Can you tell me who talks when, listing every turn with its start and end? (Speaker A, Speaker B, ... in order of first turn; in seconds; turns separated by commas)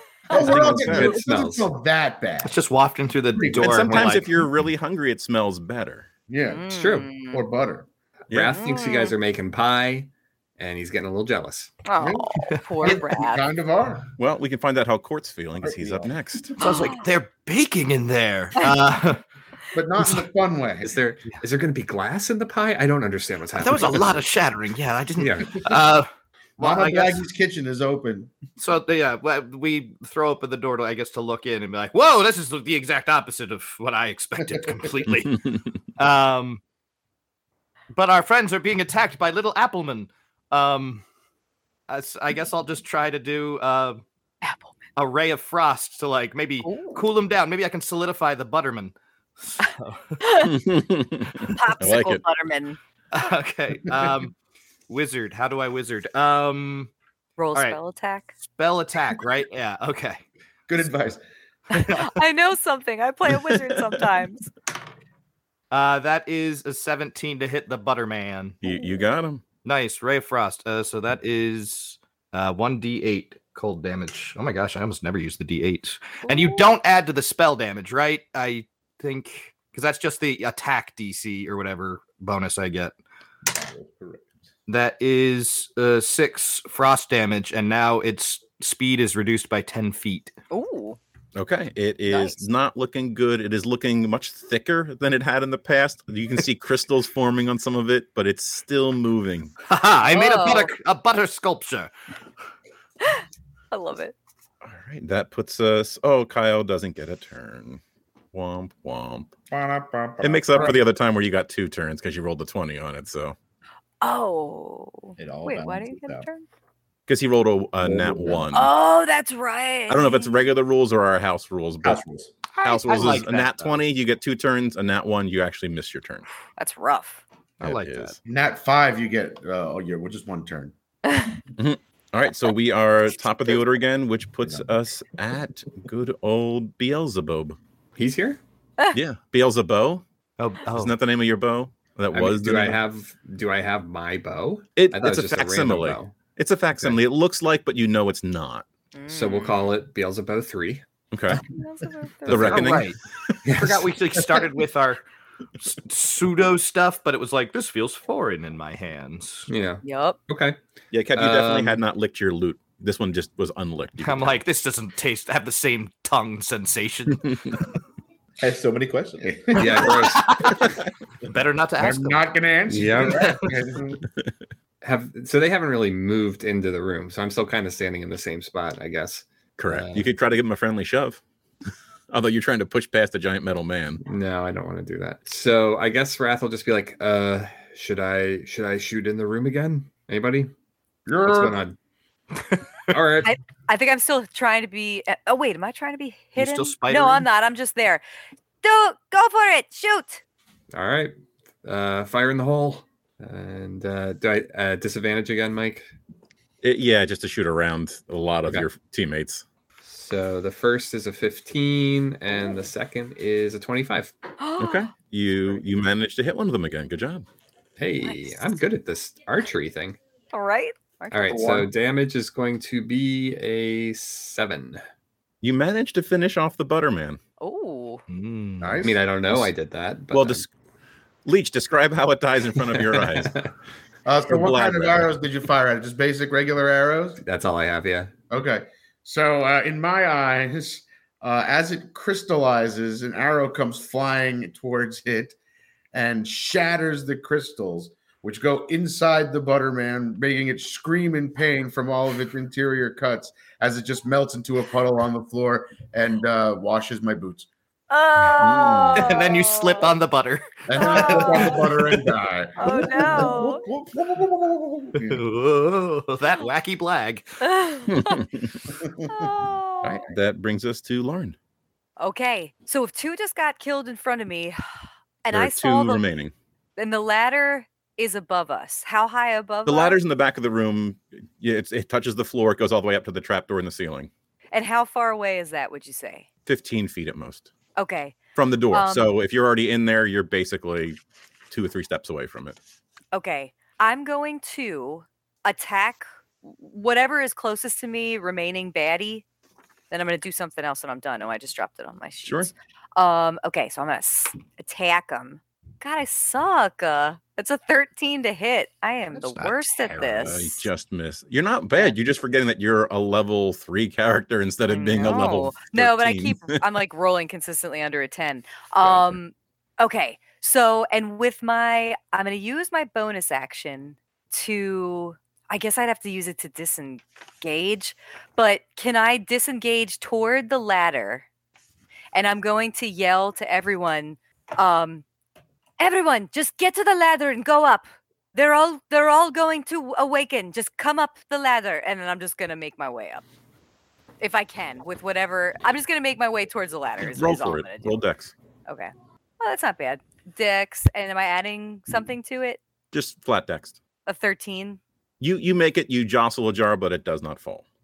Speaker A: 0.3-2.5, Speaker B: 0.3-1.2, Speaker C: 0.3-1.7, Speaker D: 2.4-4.3, Speaker A: 3.3-4.2, Speaker B: 3.6-6.1, Speaker A: 6.3-7.9, Speaker E: 6.5-7.4, Speaker C: 6.7-7.2, Speaker C: 8.3-11.8, Speaker B: 8.3-8.6, Speaker E: 8.5-9.1, Speaker E: 11.8-13.4, Speaker A: 12.0-14.1, Speaker D: 12.6-13.0, Speaker B: 14.2-16.5, Speaker F: 15.6-16.1, Speaker D: 16.6-19.2, Speaker E: 16.6-17.0, Speaker A: 19.7-20.9, Speaker C: 20.8-24.2, Speaker D: 23.6-27.2, Speaker C: 25.2-25.6, Speaker A: 26.6-28.3, Speaker D: 28.6-36.6, Speaker D: 37.9-41.0, Speaker D: 41.9-44.0, Speaker E: 44.4-44.7, Speaker D: 45.0-50.2, Speaker E: 46.6-47.0, Speaker E: 50.2-50.6, Speaker B: 50.4-52.2, Speaker E: 51.5-52.8, Speaker D: 53.1-54.3, Speaker D: 54.9-56.9, Speaker E: 57.4-58.3, Speaker D: 58.4-60.2, Speaker A: 60.7-61.2, Speaker D: 61.7-62.1, Speaker E: 61.7-64.5, Speaker D: 65.7-68.6, Speaker B: 68.6-69.4, Speaker D: 69.6-83.0, Speaker E: 76.2-76.7, Speaker F: 83.5-84.3, Speaker D: 84.7-90.3, Speaker E: 90.5-91.0, Speaker B: 91.3-99.5, Speaker E: 92.1-92.4, Speaker D: 99.7-101.9, Speaker E: 100.1-100.7, Speaker E: 103.0-104.1, Speaker B: 104.6-107.8, Speaker B: 108.3-109.3, Speaker F: 109.5-110.8, Speaker B: 110.2-113.3, Speaker E: 114.0-116.5, Speaker F: 115.2-116.3, Speaker B: 117.1-118.7, Speaker F: 117.8-118.5, Speaker E: 118.5-120.3, Speaker B: 119.9-122.0, Speaker F: 121.8-122.3, Speaker D: 122.5-123.8, Speaker B: 122.6-126.2, Speaker E: 122.9-123.1, Speaker E: 126.6-127.2, Speaker D: 127.6-128.2, Speaker B: 127.6-128.2, Speaker A: 128.2-130.7, Speaker E: 131.1-131.4, Speaker B: 131.6-137.6, Speaker C: 137.9-138.4, Speaker B: 138.9-140.0, Speaker D: 140.4-140.9, Speaker B: 140.8-142.8, Speaker C: 142.1-146.2, Speaker B: 144.8-148.7, Speaker E: 148.9-149.5, Speaker C: 149.1-150.8, Speaker B: 151.1-151.4, Speaker E: 151.4-152.7, Speaker B: 152.3-152.9, Speaker D: 152.3-155.0, Speaker C: 153.4-153.9, Speaker D: 155.6-159.5, Speaker C: 159.5-160.6, Speaker E: 159.8-160.2, Speaker B: 160.9-164.4, Speaker C: 161.1-161.8, Speaker D: 164.0-167.6, Speaker F: 168.4-169.9, Speaker A: 169.2-170.0, Speaker C: 169.5-170.3, Speaker D: 170.0-170.7, Speaker D: 171.2-172.3, Speaker A: 171.8-174.1, Speaker C: 172.7-173.4, Speaker C: 174.8-180.1, Speaker B: 179.6-181.2, Speaker B: 182.1-184.0, Speaker C: 184.0-190.5, Speaker A: 191.1-191.6, Speaker C: 191.2-191.8, Speaker C: 192.9-193.3, Speaker E: 193.2-198.0, Speaker D: 196.4-197.3, Speaker E: 198.6-200.2, Speaker C: 200.7-205.9, Speaker B: 206.6-209.4, Speaker C: 209.8-214.1, Speaker E: 214.4-214.9, Speaker B: 214.6-217.3, Speaker C: 217.8-220.0, Speaker E: 218.0-218.5, Speaker E: 220.3-221.7, Speaker C: 221.1-224.8, Speaker B: 225.4-227.2, Speaker E: 227.4-228.0, Speaker D: 228.1-228.9, Speaker A: 228.6-229.4, Speaker C: 228.8-230.4, Speaker B: 230.1-230.5, Speaker B: 231.2-233.3, Speaker C: 232.7-233.5, Speaker A: 234.0-237.2, Speaker B: 234.3-235.1, Speaker C: 237.2-238.1, Speaker A: 238.3-245.4, Speaker A: 245.9-257.5, Speaker E: 257.9-259.9, Speaker B: 258.3-259.2, Speaker D: 258.9-262.0, Speaker A: 260.7-263.3, Speaker E: 260.8-261.6, Speaker E: 262.6-263.6, Speaker F: 262.6-265.0, Speaker A: 264.9-265.2, Speaker D: 265.0-267.2, Speaker E: 267.4-268.2, Speaker B: 267.9-268.6, Speaker A: 268.8-269.3, Speaker E: 269.0-270.0, Speaker B: 269.8-271.4, Speaker E: 272.0-274.6, Speaker E: 275.2-276.0, Speaker B: 275.3-276.3, Speaker E: 276.8-280.0, Speaker B: 279.6-284.1, Speaker E: 284.5-286.2, Speaker B: 286.4-287.5, Speaker E: 287.8-288.2, Speaker B: 288.4-291.0, Speaker E: 288.7-289.1, Speaker B: 291.5-292.6, Speaker E: 293.1-299.2, Speaker E: 299.9-310.6, Speaker B: 302.2-302.5, Speaker D: 309.2-310.3, Speaker B: 310.1-316.6, Speaker E: 314.7-331.2, Speaker B: 318.8-319.2, Speaker E: 332.1-335.0, Speaker E: 335.8-343.2, Speaker E: 344.2-348.0, Speaker B: 347.0-348.3, Speaker E: 348.7-352.6, Speaker B: 352.9-353.8, Speaker E: 354.1-354.8, Speaker B: 355.2-357.6